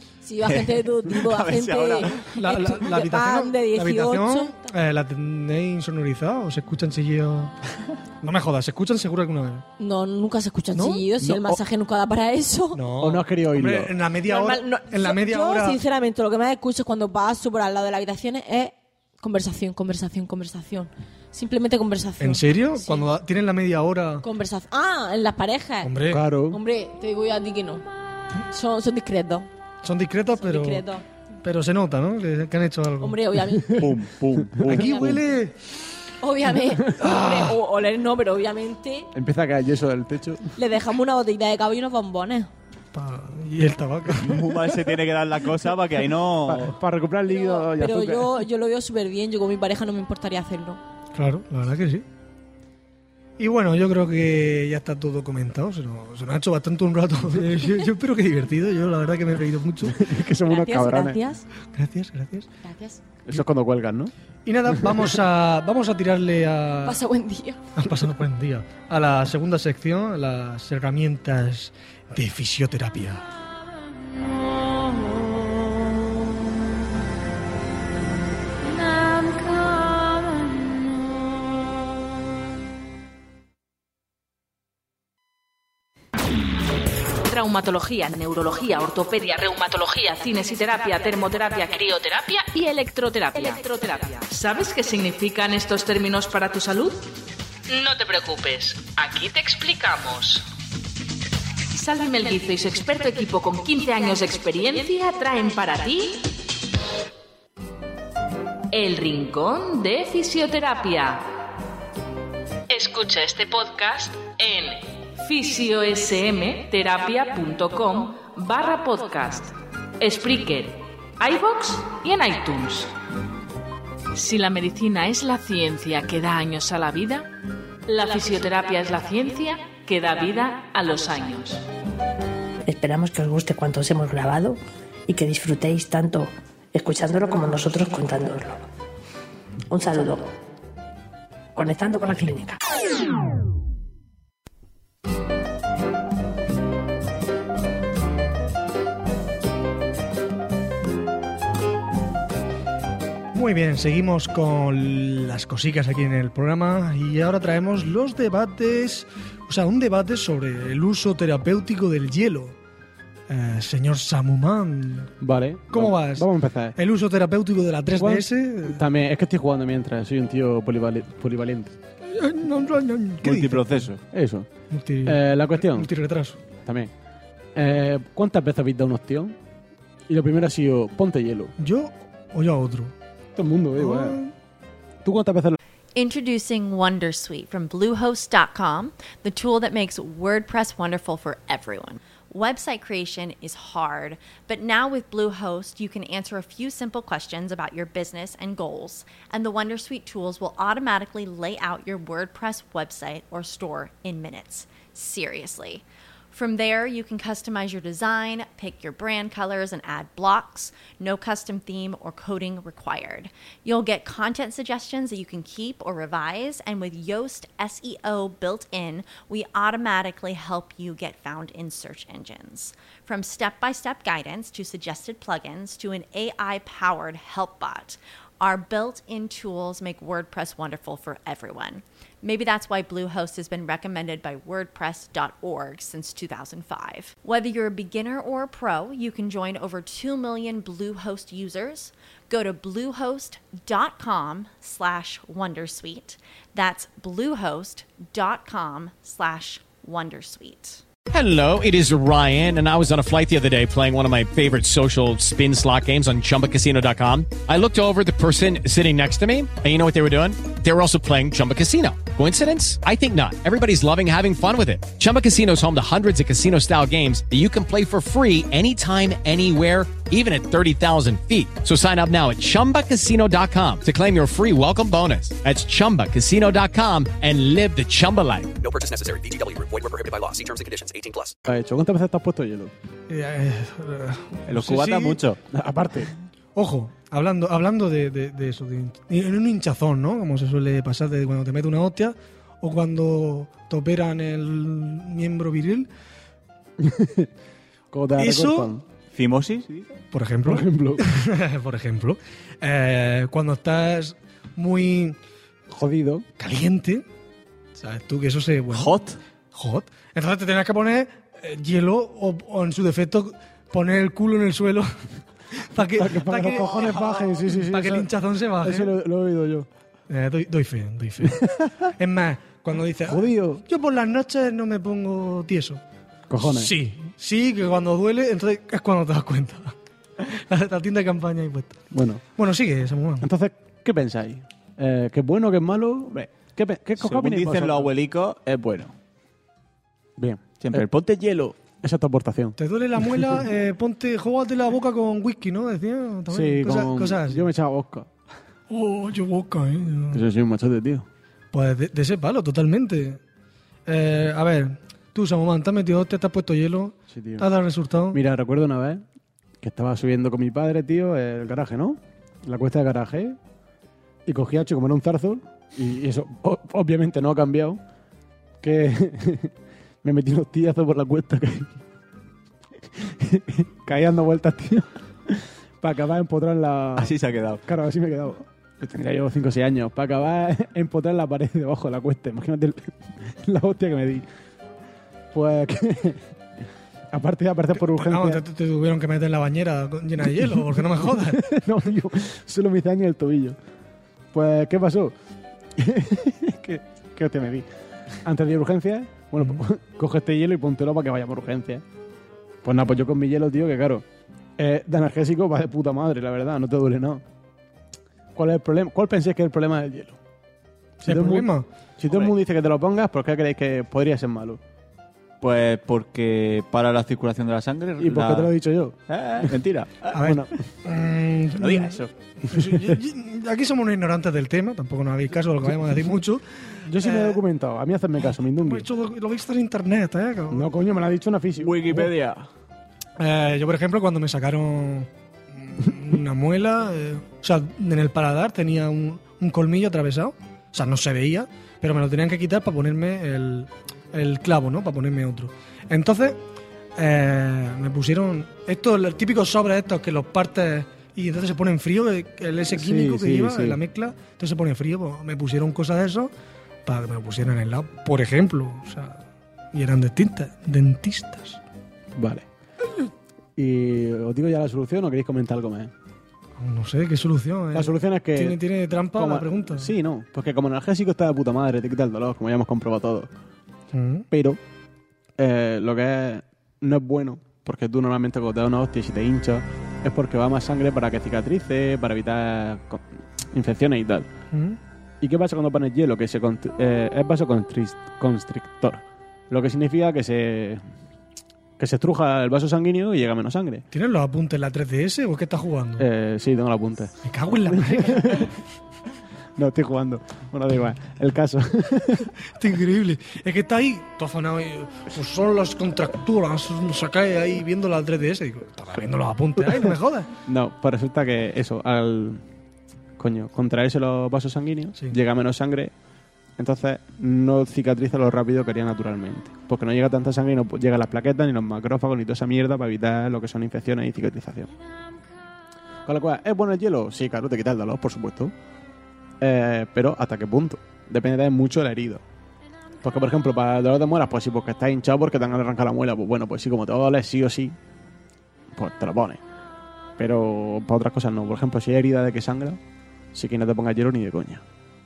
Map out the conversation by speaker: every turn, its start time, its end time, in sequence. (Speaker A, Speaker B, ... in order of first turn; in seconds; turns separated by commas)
Speaker A: 0.2-4.7, Speaker B: 0.4-2.2, Speaker C: 2.2-7.5, Speaker C: 8.2-9.7, Speaker A: 9.8-12.8, Speaker C: 10.7-11.1, Speaker D: 11.2-11.6, Speaker C: 12.7-15.8, Speaker D: 13.0-13.9, Speaker A: 14.3-23.1, Speaker C: 22.2-24.2, Speaker A: 24.2-25.9, Speaker C: 25.8-26.3, Speaker D: 26.1-26.6, Speaker A: 26.5-27.8, Speaker A: 28.5-29.5, Speaker C: 29.8-30.9, Speaker A: 30.4-31.0, Speaker C: 31.4-33.2, Speaker A: 33.0-33.9, Speaker B: 33.8-35.2, Speaker C: 34.6-35.5, Speaker A: 34.8-35.1, Speaker A: 36.2-39.1, Speaker C: 37.0-37.5, Speaker D: 39.1-40.5, Speaker A: 40.5-42.5, Speaker C: 42.9-44.7, Speaker B: 44.2-46.8, Speaker D: 46.5-48.4, Speaker A: 47.2-50.8, Speaker C: 51.1-52.0, Speaker C: 53.4-60.1, Speaker D: 59.9-61.2, Speaker A: 60.5-61.4, Speaker C: 61.7-62.5, Speaker A: 62.6-63.0, Speaker D: 63.2-64.1, Speaker C: 64.5-67.0, Speaker A: 66.8-67.6, Speaker C: 67.8-73.2, Speaker E: 87.2-97.1, Speaker E: 97.7-100.4, Speaker E: 101.7-106.3, Speaker E: 108.7-111.3, Speaker E: 112.7-122.9, Speaker E: 124.1-127.3, Speaker E: 127.8-131.6, Speaker F: 132.7-138.6, Speaker F: 139.7-140.2, Speaker F: 141.5-142.6, Speaker C: 153.3-162.6, Speaker C: 163.3-165.1, Speaker D: 165.2-166.8, Speaker C: 165.7-168.8, Speaker D: 168.0-171.7, Speaker C: 172.0-173.9, Speaker B: 173.2-174.0, Speaker D: 174.1-174.5, Speaker C: 174.7-176.4, Speaker D: 175.1-175.9, Speaker D: 176.6-176.9, Speaker D: 177.5-179.3, Speaker D: 180.1-181.5, Speaker C: 181.6-182.9, Speaker D: 183.3-184.2, Speaker C: 183.7-184.3, Speaker D: 185.0-185.6, Speaker G: 185.9-250.8, Speaker H: 251.1-278.5, Speaker I: 278.6-281.3, Speaker D: 281.4-282.7, Speaker C: 283.1-285.2, Speaker B: 284.5-285.4, Speaker D: 285.5-286.1, Speaker C: 286.5-295.9, Speaker D: 296.8-297.3, Speaker D: 297.9-298.8, Speaker C: 298.1-298.7, Speaker B: 299.1-299.9, Speaker C: 300.1-305.2, Speaker D: 300.4-301.1, Speaker D: 305.7-306.2, Speaker C: 306.4-307.1, Speaker C: 307.8-309.0, Speaker B: 308.7-309.2, Speaker C: 309.5-314.9, Speaker C: 315.6-318.9, Speaker D: 315.9-319.7, Speaker C: 320.1-321.4, Speaker D: 321.3-321.7, Speaker C: 322.0-325.8, Speaker D: 323.1-323.6, Speaker D: 326.3-326.7, Speaker C: 326.4-331.8, Speaker D: 331.9-332.2, Speaker C: 332.4-333.3, Speaker D: 333.2-337.9, Speaker B: 337.0-338.9, Speaker D: 340.2-340.9, Speaker B: 340.6-341.5, Speaker D: 341.8-342.6, Speaker C: 342.6-347.5, Speaker D: 346.3-348.1, Speaker C: 348.7-350.2, Speaker D: 350.1-351.1, Speaker C: 351.5-353.2, Speaker C: 353.9-358.2, Speaker D: 357.1-357.4, Speaker D: 358.1-359.0, Speaker D: 359.6-363.4, Speaker D: 364.2-367.8, Speaker D: 368.6-369.5, Speaker D: 370.0-371.7, Speaker D: 373.0-377.1, Speaker B: 376.9-377.6, Speaker D: 377.6-384.2, Speaker D: 385.3-386.2, Speaker D: 387.1-388.4, Speaker C: 387.7-391.5, Speaker D: 391.1-393.6, Speaker D: 394.3-395.1, Speaker D: 395.8-397.6, Speaker D: 398.2-401.8, Speaker D: 402.6-404.0, Speaker D: 404.6-407.2, Speaker D: 408.3-410.2, Speaker C: 411.0-411.7, Speaker D: 411.0-414.6, Speaker B: 412.1-412.3, Speaker B: 415.4-418.5, Speaker D: 418.0-419.5, Speaker B: 419.1-420.2, Speaker C: 420.1-427.4, Speaker D: 420.1-420.5, Speaker B: 421.6-422.1, Speaker D: 426.8-428.9, Speaker C: 428.3-430.7, Speaker D: 430.5-432.1, Speaker B: 431.6-432.5, Speaker C: 433.2-446.4, Speaker C: 446.9-456.3, Speaker D: 452.7-453.8, Speaker C: 456.8-459.2, Speaker C: 459.7-461.6, Speaker D: 462.1-462.4, Speaker D: 463.6-465.9, Speaker C: 466.6-469.9, Speaker D: 467.7-473.3, Speaker C: 473.9-474.2, Speaker D: 474.3-474.6, Speaker D: 475.4-484.3, Speaker C: 484.5-484.8, Speaker D: 485.2-490.8, Speaker D: 491.8-493.8, Speaker C: 493.9-496.1, Speaker D: 496.0-497.1, Speaker C: 497.2-498.5, Speaker D: 497.6-498.5, Speaker D: 499.6-502.3, Speaker C: 502.4-510.3, Speaker D: 510.4-512.4, Speaker D: 513.2-515.9, Speaker D: 516.6-524.7, Speaker D: 526.0-528.5, Speaker D: 529.4-532.2, Speaker D: 533.0-537.8, Speaker D: 538.7-539.4, Speaker D: 540.2-542.8, Speaker D: 543.3-544.6